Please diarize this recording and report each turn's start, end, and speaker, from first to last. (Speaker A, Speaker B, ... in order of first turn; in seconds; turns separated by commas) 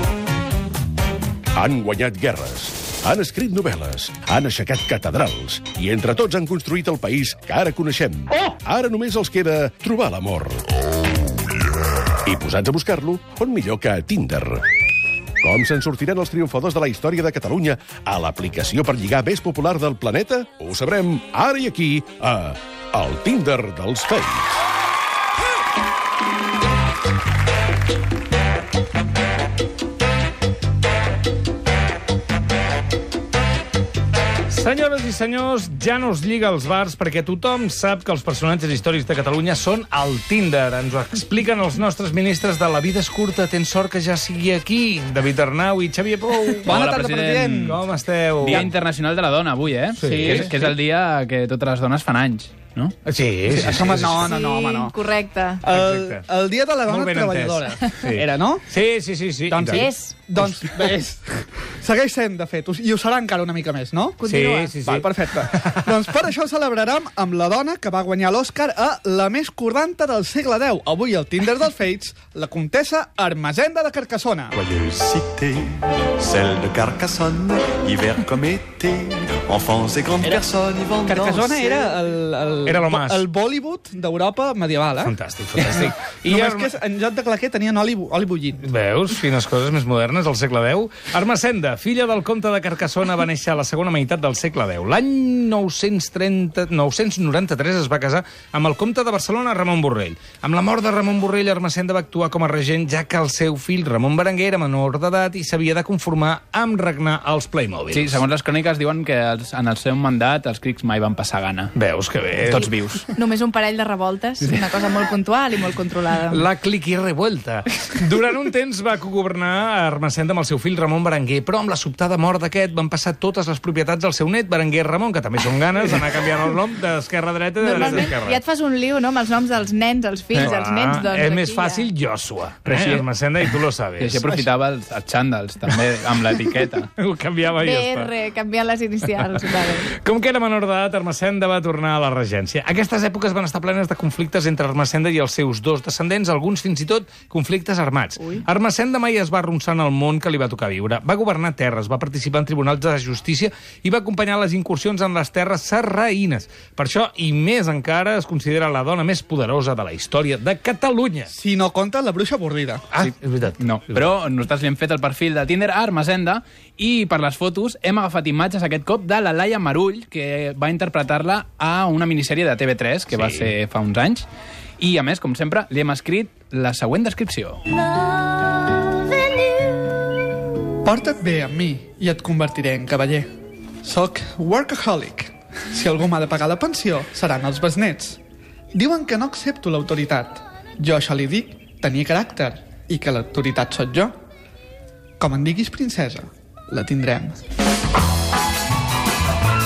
Speaker A: 1.5-10.6, Speaker A: 12.2-14.6, Speaker A: 15.4-24.6, Speaker B: 34.5-46.8, Speaker C: 46.6-47.8, Speaker D: 46.6-47.8, Speaker B: 47.6-48.7, Speaker D: 48.4-53.0, Speaker B: 50.0-50.6, Speaker B: 53.0-54.4, Speaker D: 53.5-54.3, Speaker C: 53.6-55.0, Speaker E: 54.6-55.4, Speaker C: 55.6-58.7, Speaker B: 55.7-56.3, Speaker B: 56.8-60.5, Speaker C: 59.5-74.5, Speaker E: 59.8-60.1, Speaker B: 64.2-66.1, Speaker F: 75.0-81.6, Speaker C: 81.0-88.7, Speaker B: 82.7-83.2, Speaker B: 85.0-86.8, Speaker B: 88.6-108.2, Speaker D: 107.9-111.7, Speaker B: 111.8-112.7, Speaker D: 112.4-113.0, Speaker E: 113.2-116.2, Speaker B: 116.2-128.4, Speaker D: 127.8-128.1, Speaker E: 127.8-131.7, Speaker D: 130.3-130.6, Speaker B: 130.3-134.4, Speaker D: 132.7-136.9, Speaker B: 136.9-138.2, Speaker E: 138.0-139.1, Speaker B: 139.2-161.3, Speaker C: 161.3-162.8, Speaker B: 162.9-164.0, Speaker D: 163.6-174.2, Speaker B: 173.1-173.5, Speaker D: 174.8-177.6, Speaker C: 180.8-183.3, Speaker C: 183.8-188.2, Speaker C: 188.7-194.1, Speaker C: 195.2-197.4